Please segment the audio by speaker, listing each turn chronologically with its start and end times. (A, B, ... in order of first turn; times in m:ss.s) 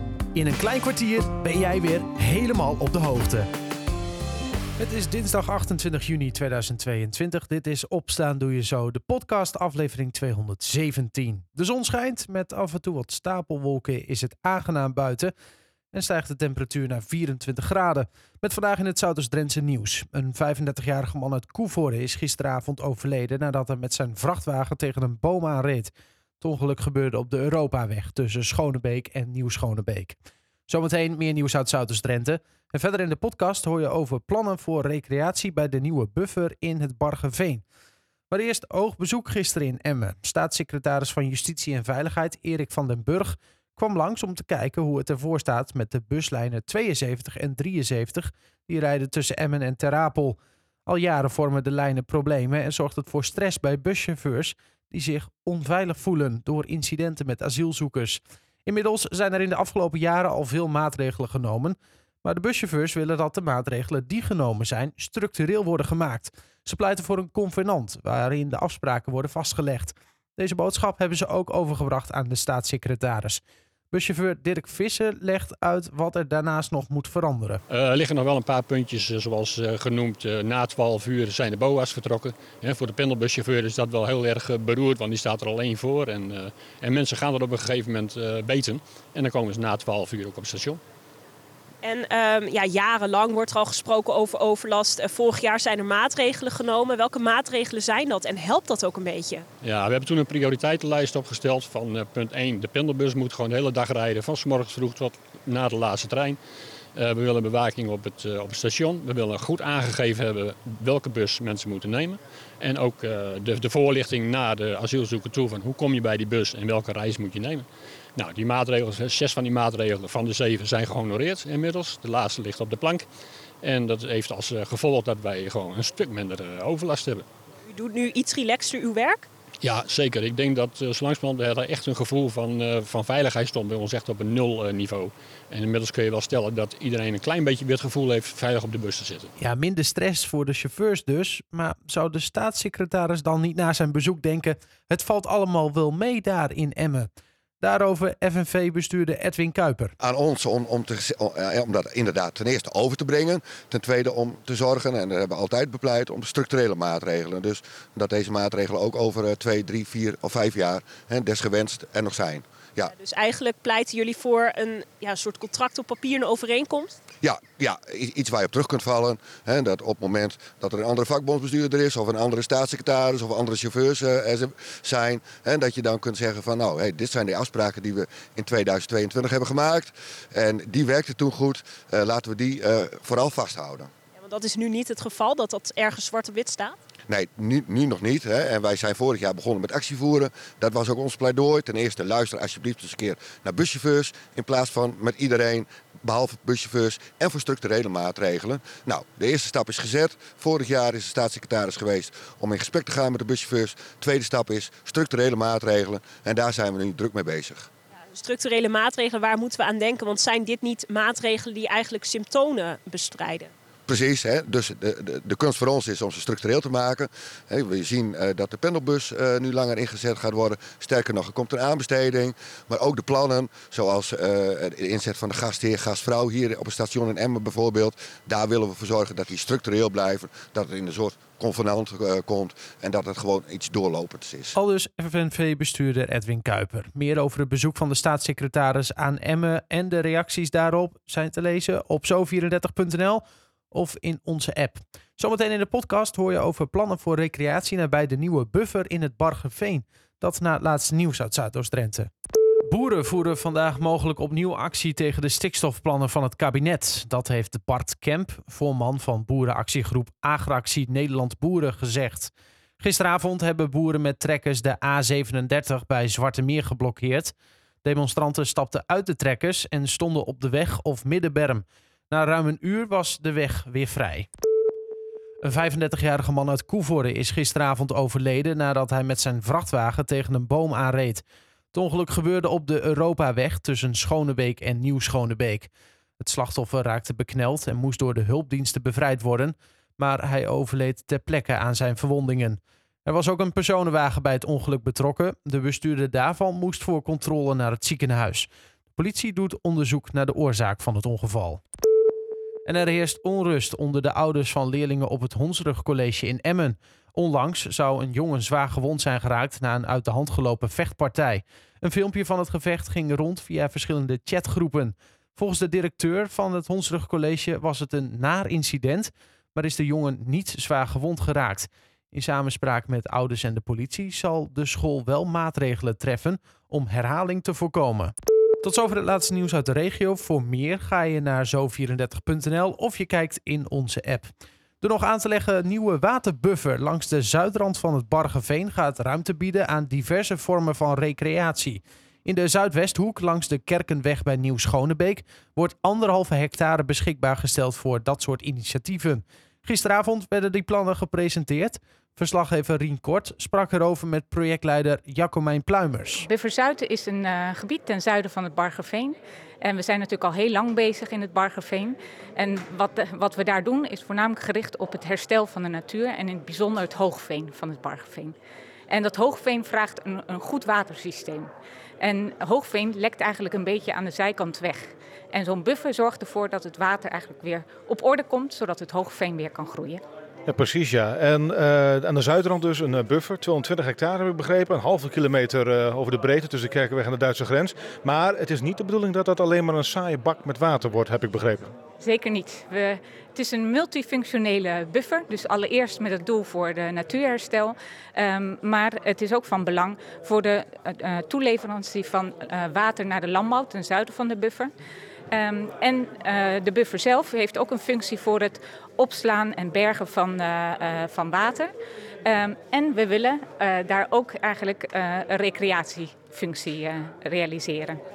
0:00.4-0:03.5 A
0:04.8-0:15.3 A
0:15.9-0:30.2 A
0:30.7-0:37.6 A
0:38.3-1:17.6 A
1:17.7-1:30.8 B
1:31.8-1:39.5 C
1:39.6-1:46.4 B
1:47.0-1:57.7 B
1:58.2-2:03.0 B
2:03.6-2:07.2 B
2:07.7-2:09.3 C
2:09.6-2:19.3 B
2:19.4-2:27.1 A
2:27.6-2:30.0 A
2:30.0-2:42.9 D
2:42.9-2:47.0 C
2:47.2-3:03.9 D
3:04.2-3:06.8 C
3:07.1-3:27.7 D
3:28.1-3:33.5 C
3:33.9-3:54.6 D
3:54.6-4:12.1 A
4:12.6-4:27.3 A
4:27.8-4:34.3 A
4:35.4-5:01.6 A
5:02.7-5:56.3 A
5:56.2-6:08.4 E
6:08.9-6:20.0 E
6:20.5-6:31.8 F
6:32.0-6:44.7 E
6:45.3-6:51.7 E
6:52.2-6:58.0 E